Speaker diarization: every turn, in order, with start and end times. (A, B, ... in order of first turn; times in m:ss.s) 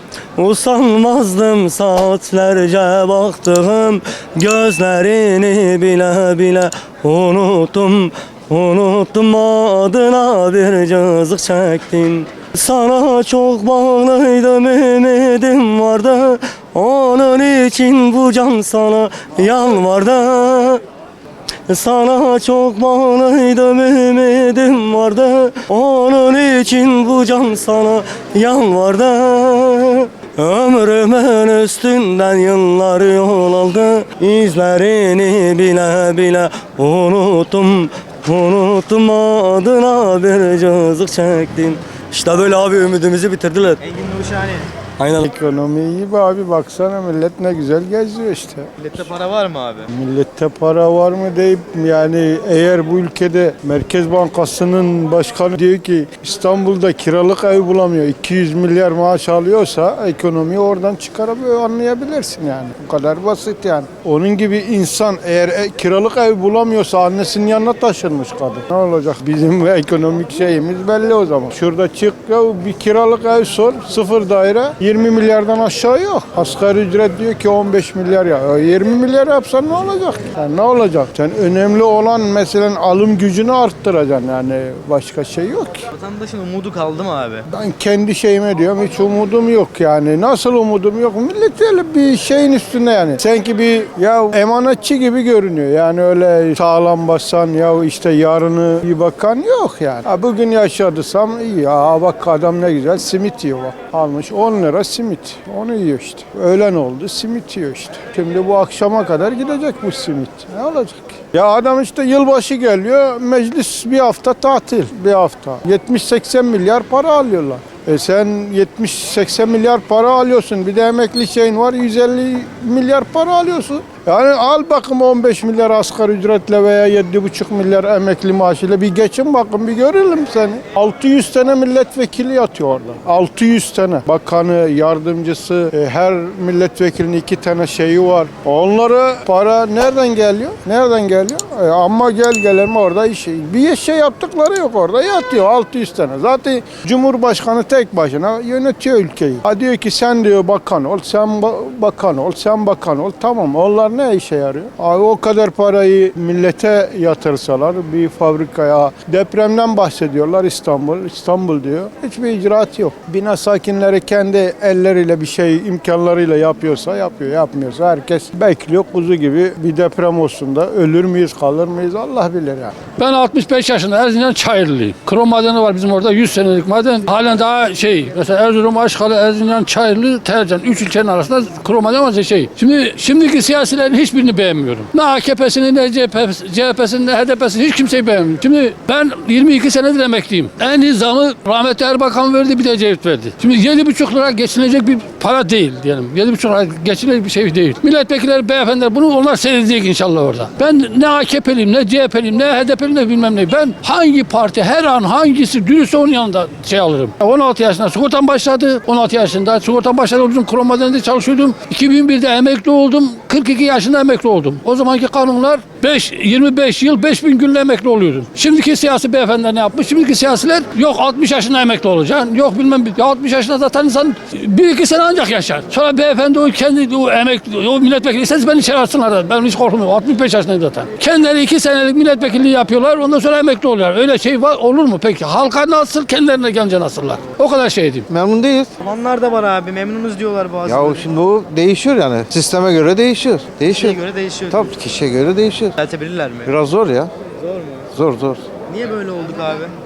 0:00.4-0:20.8 A
0:21.7-0:43.8 A
0:43.8-0:44.7 B
0:45.0-0:45.3 A
0:45.2-0:48.7 C
0:48.8-0:49.9 B
0:49.9-1:25.8 C
1:25.9-1:27.4 B
1:27.5-2:52.7 C
2:53.0-3:58.1 D
3:58.1-3:58.7 E
3:58.8-4:01.1 B
4:00.6-4:05.8 E
4:03.7-4:04.7 B
4:05.8-4:06.5 B
4:06.4-4:07.1 E
4:07.4-4:07.9 B
4:07.9-4:08.4 E
4:08.7-4:09.7 B